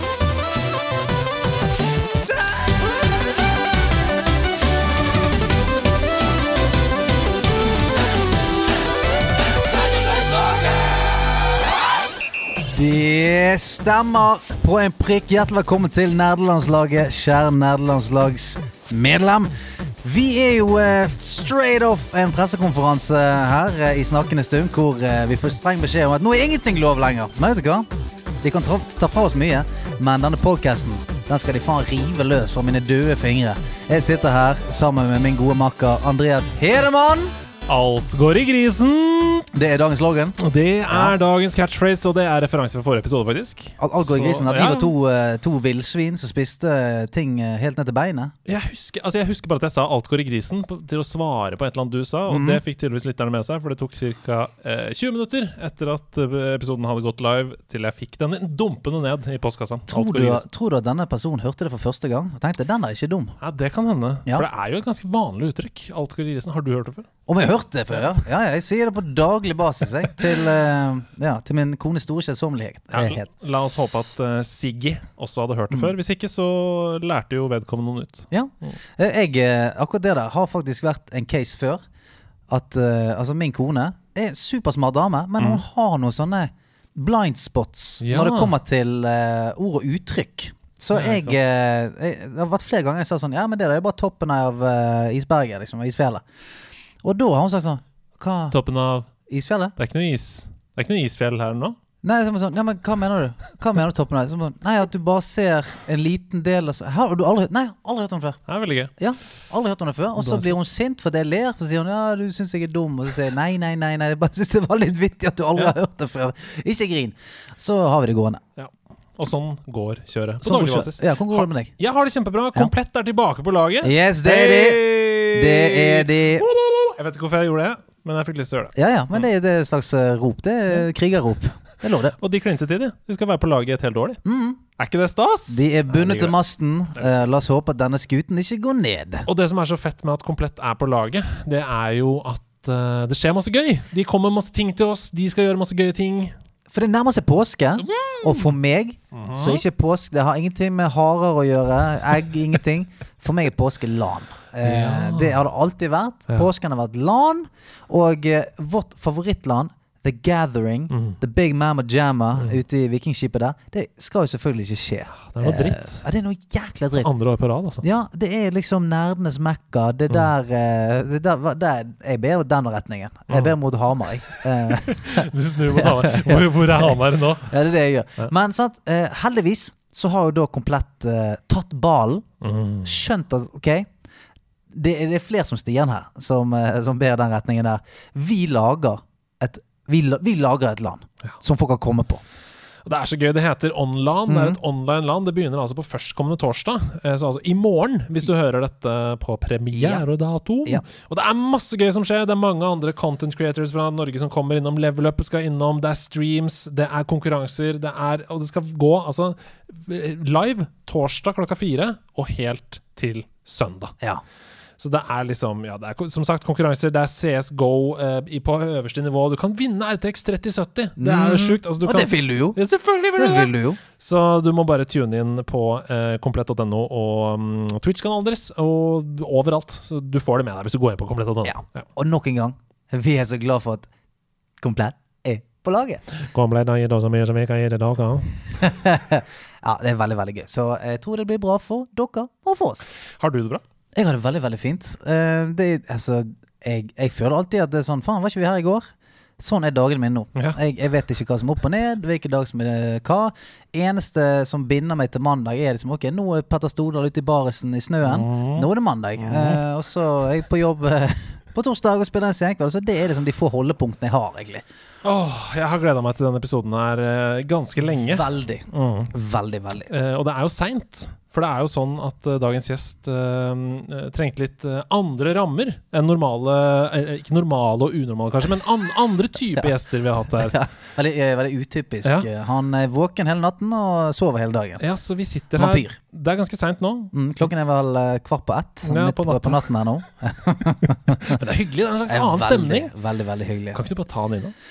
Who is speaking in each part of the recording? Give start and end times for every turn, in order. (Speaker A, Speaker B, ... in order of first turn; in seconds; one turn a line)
Speaker A: 12.7-19.5
Speaker A: 20.0-27.9
Speaker A: 28.4-37.3
Speaker B: 37.7-39.5
Speaker A: 39.5-40.4
Speaker B: 40.4-44.9
Speaker A: 43.8-48.3
Speaker B: 48.5-60.4
Speaker A: 52.3-52.6
Speaker A: 59.9-63.4
Speaker B: 63.4-67.1
Speaker A: 67.3-73.3
Speaker B: 72.9-78.8
Speaker A: 78.3-81.8
Speaker A: 82.5-96.2
Speaker B: 88.0-88.5
Speaker B: 90.9-91.4
Speaker A: 97.0-98.5
Speaker B: 98.5-99.1
Speaker A: 99.3-99.7
Speaker B: 99.8-101.8
Speaker A: 102.0-108.4
Speaker B: 108.5-108.9
Speaker A: 109.0-118.4
Speaker B: 110.2-110.6
Speaker B: 118.6-129.2
Speaker A: 120.4-121.7
Speaker A: 123.8-126.5
Speaker A: 128.8-132.2
Speaker B: 132.2-134.2
Speaker A: 134.2-134.6
Speaker B: 134.8-136.3
Speaker A: 135.5-139.2
Speaker B: 139.2-146.3
Speaker A: 146.7-167.1
Speaker B: 147.8-148.5
Speaker B: 149.1-149.6
Speaker B: 154.6-155.3
Speaker B: 160.9-161.2
Speaker B: 165.2-166.0
Speaker B: 167.0-167.8
Speaker A: 167.8-182.2
Speaker B: 173.3-173.5
Speaker B: 174.8-177.5
Speaker B: 182.4-183.0
Speaker A: 182.8-183.9
Speaker A: 184.7-192.2
Speaker B: 192.8-213.9
Speaker A: 194.3-194.6
Speaker A: 199.8-200.0
Speaker B: 214.8-231.8
Speaker A: 221.0-222.6
Speaker A: 223.2-223.8
Speaker A: 231.4-233.8
Speaker A: 234.6-236.0
Speaker B: 236.2-238.4
Speaker A: 238.6-242.9
Speaker B: 243.2-243.6
Speaker A: 243.9-248.9
Speaker A: 249.4-264.6
Speaker B: 258.0-258.7
Speaker B: 259.2-259.6
Speaker B: 265.0-269.1
Speaker A: 267.9-269.9
Speaker B: 269.9-280.6
Speaker A: 280.4-284.8
Speaker B: 284.8-287.1
Speaker A: 285.6-285.9
Speaker A: 287.1-291.4
Speaker B: 288.8-289.6
Speaker B: 291.1-292.9
Speaker A: 292.1-293.8
Speaker B: 293.7-294.5